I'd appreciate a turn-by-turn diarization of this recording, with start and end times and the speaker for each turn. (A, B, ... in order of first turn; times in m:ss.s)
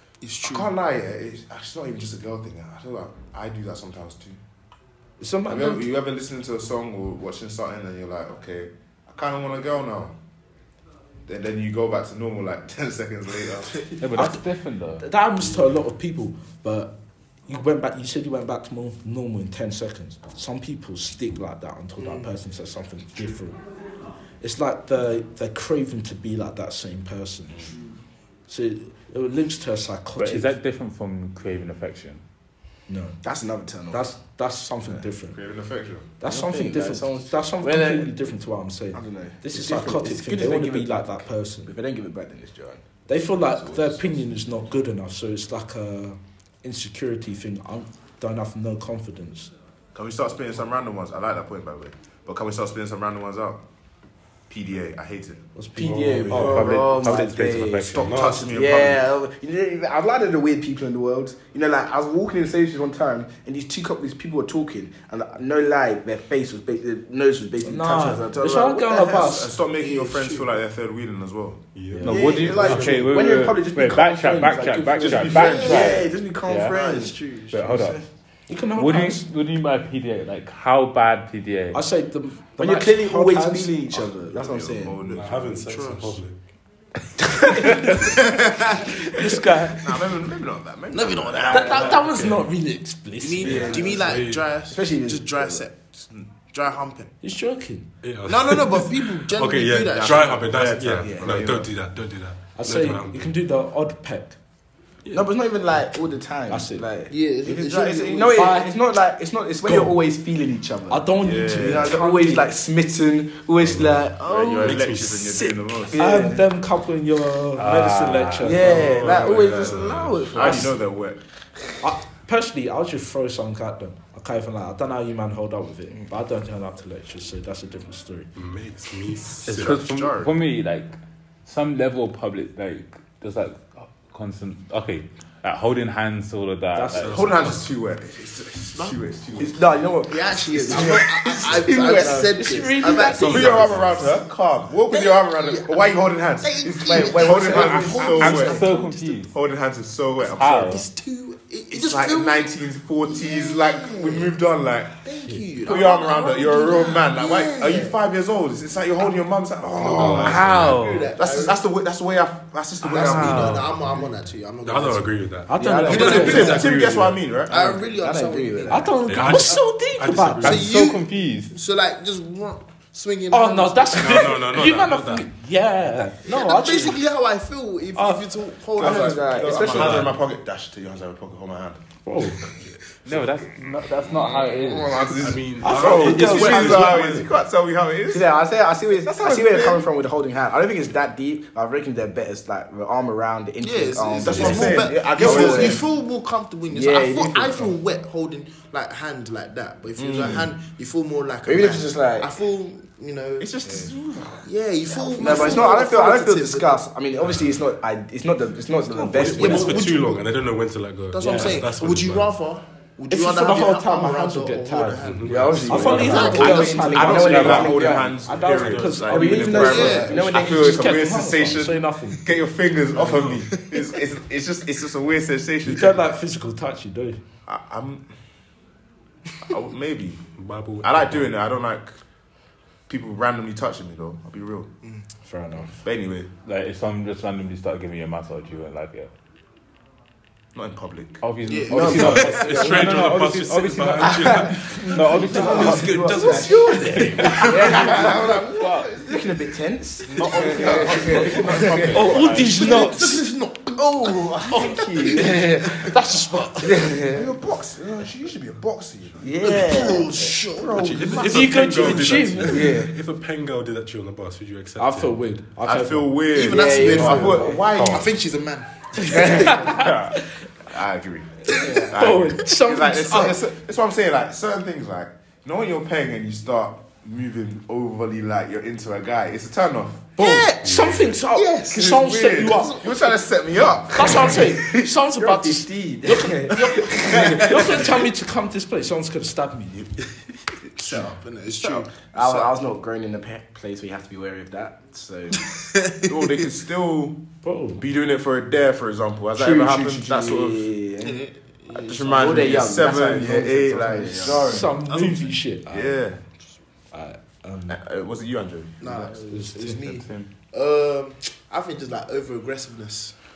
0:00.2-0:00.7 A
0:00.4-0:04.4 B
0:05.2-0:05.9 C
0:05.5-0:10.2 B
0:11.3-0:13.9 B
0:14.0-0:15.0 D
0:14.1-0:14.4 C
0:15.0-0:17.0 C
0:17.5-0:23.6 C
0:22.0-0:22.3 A
0:24.4-0:27.7 C
0:28.5-0:30.5 C
0:30.2-0:32.2 D
0:32.9-0:33.2 C
0:33.2-0:34.0 E
0:33.9-0:35.4 C
0:34.9-0:36.1 B
0:36.2-0:41.8 C
0:36.3-0:38.1 E
0:38.9-0:42.8 E
0:43.1-0:49.5 C
0:43.4-0:44.2 B
0:49.9-0:53.6 B
0:54.5-0:55.5 B
0:55.6-0:56.7 C
0:55.8-1:09.3 E
0:55.8-0:56.8 F
0:56.4-0:58.3 D
0:57.9-0:59.1 B
0:57.9-0:58.5 F
1:07.6-1:09.6 C
1:09.1-1:11.6 B
1:09.8-1:10.5 A
1:11.8-1:13.2 F
1:11.9-1:12.2 C
1:12.0-1:16.8 D
1:12.0-1:18.1 E
1:14.8-1:15.1 C
1:15.1-1:15.9 B
1:15.3-1:16.1 A
1:16.7-1:17.5 A
1:17.5-1:18.0 D
1:18.5-1:19.3 C
1:18.8-1:21.8 D
1:21.7-1:23.9 C
1:22.6-1:25.0 E
1:24.3-1:25.6 B
1:25.0-1:26.2 A
1:25.1-1:26.4 F
1:27.2-1:28.0 C
1:27.9-1:28.9 A
1:29.0-1:29.9 C
1:29.7-1:32.4 B
1:30.9-1:32.0 A
1:31.5-1:34.0 C
1:33.2-1:37.1 A
1:33.4-1:34.6 F
1:33.4-1:34.0 E
1:34.7-1:35.7 E
1:37.2-1:37.9 C
1:38.0-1:43.4 F
1:38.2-1:40.5 A
1:39.9-1:41.7 B
1:41.0-1:41.4 E
1:42.6-1:44.4 C
1:45.0-1:45.3 F
1:45.1-1:54.9 E
1:46.5-1:46.9 C
1:47.1-1:48.5 A
1:48.4-1:48.7 C
1:49.7-1:49.9 C
1:50.9-1:52.5 C
1:51.2-1:52.0 B
1:53.7-1:54.1 F
1:54.2-1:56.0 B
1:54.6-1:55.5 F
1:55.8-1:56.4 E
1:56.0-1:59.0 C
1:57.6-1:58.7 D
1:58.4-2:00.8 E
1:58.6-2:00.6 F
2:00.3-2:01.2 B
2:01.8-2:08.3 C
2:08.4-2:09.9 F
2:09.5-2:17.4 D
2:09.5-2:10.3 B
2:16.8-2:17.1 C
2:17.0-2:17.7 F
2:17.0-2:19.6 B
2:18.7-2:19.0 A
2:19.4-2:22.5 E
2:20.1-2:23.7 A
2:20.7-2:22.2 B
2:22.3-2:24.0 C
2:23.1-2:24.1 F
2:23.2-2:28.7 B
2:24.9-2:29.2 A
2:26.9-2:28.4 E
2:27.5-2:29.3 D
2:29.3-2:30.8 B
2:30.3-2:30.8 D
2:30.7-2:34.4 A
2:31.7-2:35.0 B
2:35.0-2:38.0 A
2:35.6-2:40.6 B
2:39.8-2:40.8 F
2:39.8-2:41.6 A
2:40.1-2:41.1 D
2:41.2-2:43.6 B
2:42.8-2:45.2 A
2:43.0-2:43.6 D
2:43.2-2:43.6 C
2:44.6-2:47.2 F
2:45.5-2:46.6 C
2:45.6-2:46.6 E
2:45.9-2:46.7 A
2:46.0-2:47.8 B
2:47.5-2:49.6 A
2:47.6-2:49.0 E
2:48.7-2:50.6 C
2:49.1-2:50.7 F
2:50.4-2:51.6 D
2:50.4-2:54.4 A
2:53.3-2:57.0 C
2:54.0-2:55.3 F
2:56.2-2:59.8 A
2:58.0-2:58.3 C
2:58.8-3:00.1 E
2:58.8-3:01.8 B
2:59.7-3:00.1 F
3:02.0-3:02.4 C
3:03.0-3:05.1 D
3:04.1-3:08.3 B
3:05.1-3:07.4 F
3:05.6-3:06.7 C
3:08.1-3:15.8 E
3:09.0-3:09.9 B
3:13.6-3:23.6 A
3:14.2-3:15.8 B
3:16.7-3:17.7 E
3:20.0-3:20.5 B
3:21.5-3:22.3 E
3:23.4-3:25.7 B
3:24.4-3:26.9 A
3:25.1-3:29.9 E
3:29.0-3:29.7 C
3:29.1-3:32.4 F
3:29.2-3:30.3 A
3:31.1-3:37.0 A
3:31.2-3:31.6 C
3:33.1-3:35.1 C
3:35.0-3:36.2 F
3:35.3-3:38.2 E
3:35.6-3:42.3 C
3:36.0-3:46.0 B
3:37.1-3:37.8 D
3:38.2-3:39.4 F
3:39.0-3:41.1 E
3:39.6-3:40.2 A
3:40.1-3:40.4 F
3:42.9-3:43.4 F
3:45.6-3:47.2 C
3:47.5-3:48.1 B
3:49.4-3:50.2 B
3:50.4-3:51.3 F
3:50.8-3:52.0 B
3:52.9-3:54.7 B
3:55.3-3:55.8 C
3:55.8-3:56.3 B
3:56.4-3:59.1 D
4:00.5-4:01.2 B
4:01.2-4:09.0 D
4:01.5-4:03.1 A
4:01.7-4:02.6 E
4:01.8-4:07.5 F
4:04.0-4:06.8 E
4:04.2-4:07.4 C
4:06.2-4:09.2 B
4:07.3-4:08.4 E
4:08.9-4:11.9 E
4:10.1-4:12.8 D
4:10.2-4:12.3 B
4:11.9-4:13.2 C
4:12.6-4:16.0 A
4:13.8-4:15.9 E
4:14.5-4:14.9 C
4:15.6-4:16.8 C
4:16.6-4:17.2 E
4:17.1-4:19.3 B
4:19.2-4:20.2 E
4:19.4-4:21.3 A
4:20.5-4:22.3 B
4:20.7-4:25.2 F
4:21.2-4:22.7 C
4:22.5-4:22.9 E
4:24.8-4:26.2 C
4:25.6-4:28.1 B
4:26.3-4:29.9 A
4:26.5-4:27.7 E
4:27.0-4:27.6 C
4:27.7-4:28.1 D
4:29.1-4:29.6 E
4:29.2-4:30.2 C
4:29.6-4:30.2 D
4:30.7-4:40.1 B
4:31.5-4:31.9 E
4:31.9-4:33.4 C
4:40.2-4:42.8 C
4:40.2-4:43.2 A
4:40.6-4:41.1 F
4:41.7-4:44.9 B
4:43.9-4:49.8 C
4:44.0-4:44.3 A
4:45.1-4:47.9 E
4:46.8-4:47.9 A
4:47.0-4:47.4 B
4:50.8-4:52.5 A
4:51.6-4:55.5 E
4:55.5-4:56.4 A
4:56.1-4:57.2 B
4:57.4-4:57.8 C
4:57.8-5:00.7 B
4:59.4-5:01.2 E
5:01.0-5:02.7 A
5:01.8-5:04.7 B
5:02.0-5:04.6 E
5:03.8-5:05.4 A
5:04.4-5:06.1 C
5:05.7-5:06.2 B
5:06.9-5:07.8 C
5:07.7-5:09.1 B
5:08.8-5:13.2 A
5:09.3-5:09.8 C
5:09.9-5:10.3 D